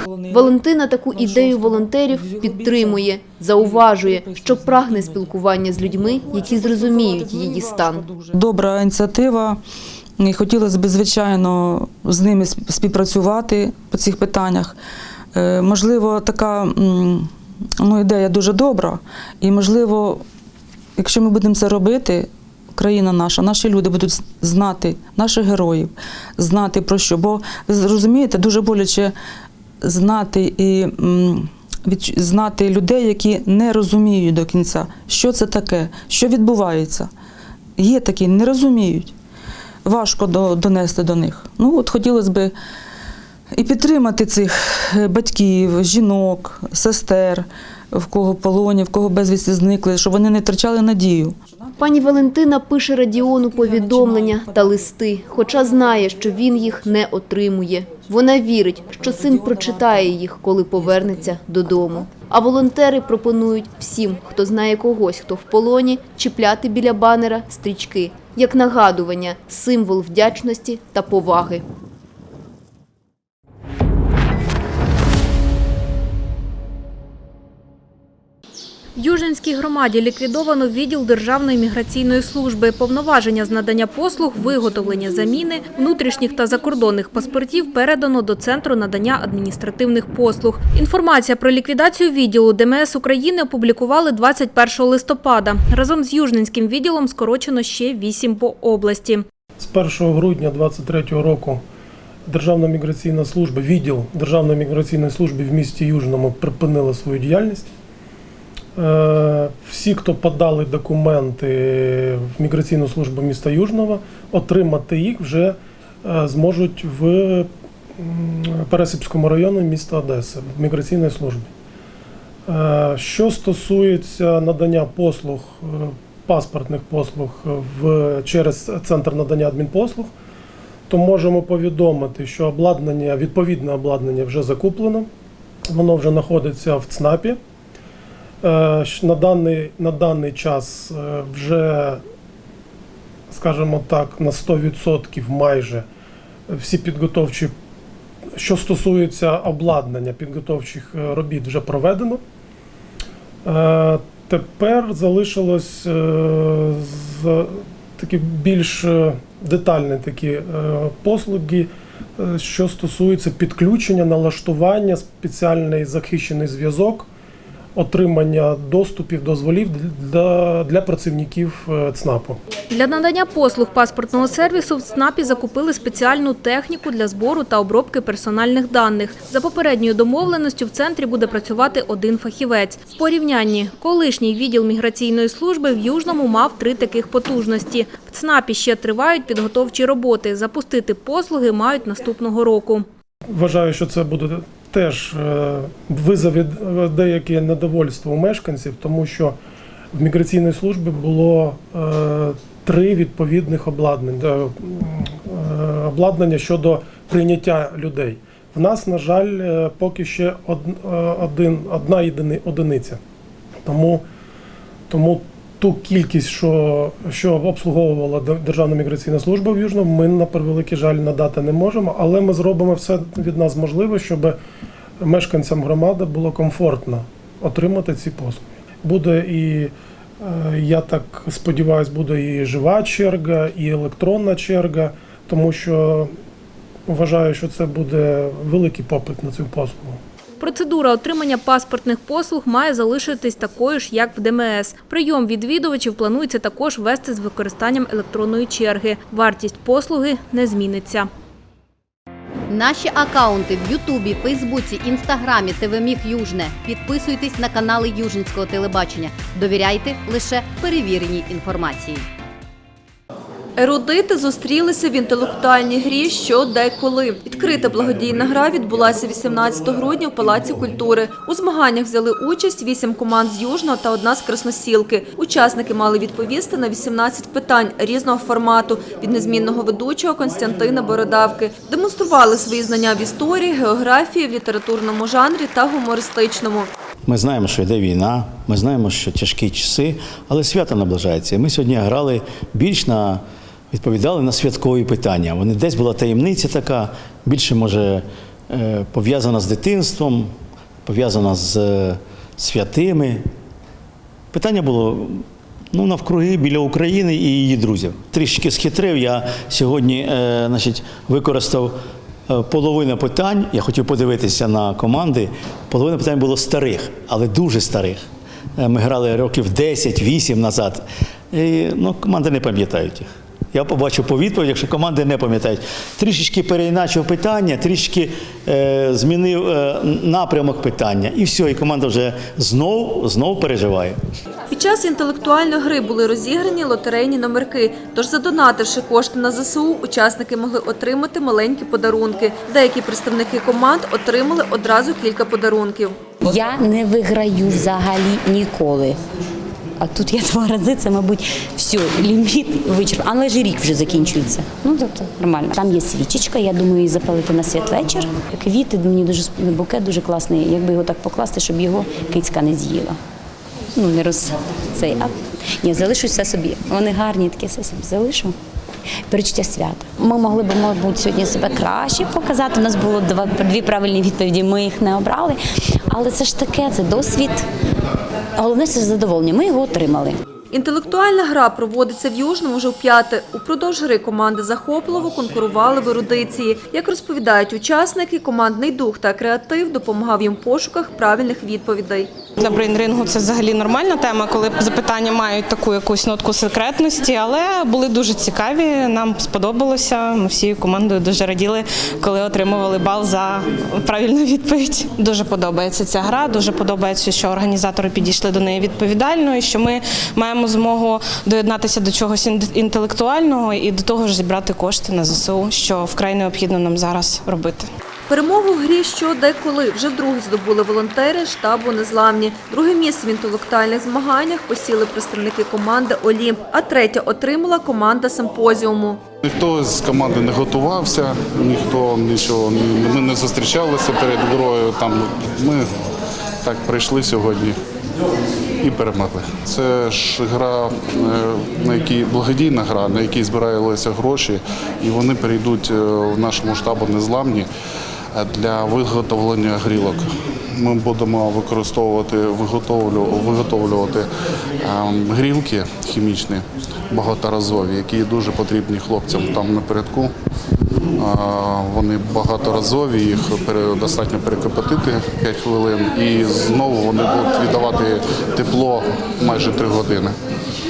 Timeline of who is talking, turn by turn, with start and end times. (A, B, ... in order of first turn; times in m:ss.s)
0:00.3-0:08.1 A
0:01.7-0:03.0 B
0:06.6-0:09.6 B
0:10.2-0:14.8 B
0:15.3-0:20.2 B
0:21.0-0:29.1 B
0:29.8-0:37.1 B
0:37.8-0:39.1 B
0:39.8-0:42.5 B
0:43.6-0:51.4 B
0:51.8-1:11.6 A
1:19.0-1:39.2 C
1:39.6-1:41.6 D
1:42.3-1:47.7 D
1:48.8-1:57.5 D
1:58.0-2:01.5 D
2:02.5-2:10.1 D
2:10.9-2:15.1 D
2:15.7-2:17.4 D
2:18.4-2:22.0 D
2:23.3-2:25.8 D
2:26.5-2:27.5 D
2:28.4-2:32.2 D
2:33.5-2:47.1 D
2:47.8-2:52.4 D
2:52.7-3:12.8 C
3:13.3-3:19.4 D
3:19.9-3:33.0 D
3:33.7-3:34.0 D
3:34.9-3:44.4 D
3:45.0-3:56.1 D
3:56.9-4:00.0 D
4:00.4-4:11.1 C
4:12.5-4:22.1 E
4:23.6-4:46.7 F
4:47.1-5:00.3 G
5:00.9-5:03.3 G
5:04.3-5:11.8 G
5:12.3-5:18.0 G
5:18.6-5:34.0 G
5:34.5-5:46.0 F
5:46.3-5:49.0 H
5:49.8-6:03.0 H
6:03.8-6:08.3 H
6:09.1-6:17.4 H
6:18.4-6:20.2 H
6:20.5-6:32.1 F
6:32.4-6:57.7 I
6:58.1-7:09.0 F
7:09.2-7:15.7 J
7:16.4-7:17.6 J
7:18.6-7:27.5 J
7:28.1-7:34.1 J
7:34.6-7:40.1 J
7:41.0-7:50.2 J